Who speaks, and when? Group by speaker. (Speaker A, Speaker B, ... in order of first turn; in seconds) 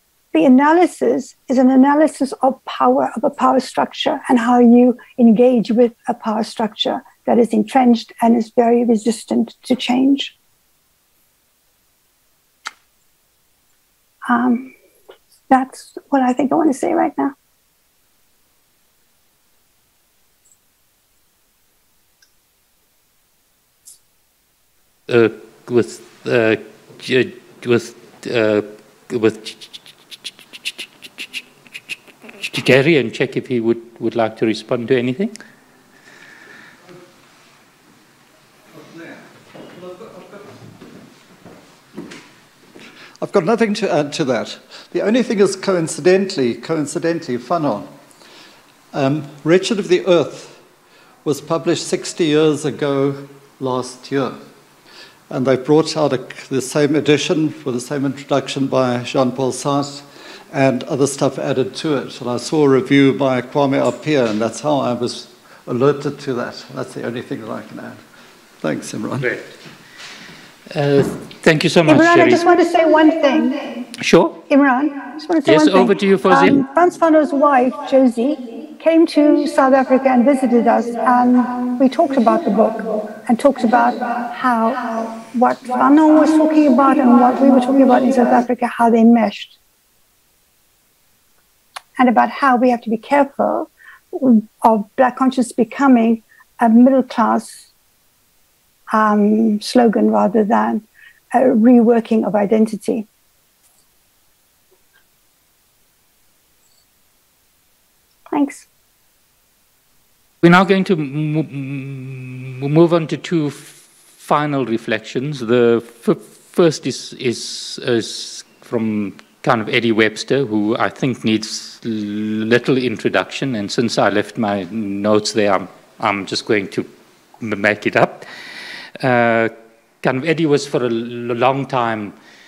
Speaker A: 0.3-10.3, 14.2-14.7, 15.5-17.3, 71.9-73.7, 74.5-89.6, 92.0-97.7, 98.9-103.0, 108.3-108.7
Speaker B: 25.1-29.7, 32.4-35.3, 70.7-72.4, 74.0-74.4, 75.5-76.6, 110.4-126.9, 127.4-128.3, 129.0-132.1
Speaker C: 38.7-40.5, 43.2-47.9, 48.9-50.6, 51.2-54.4, 55.3-68.0, 68.6-69.4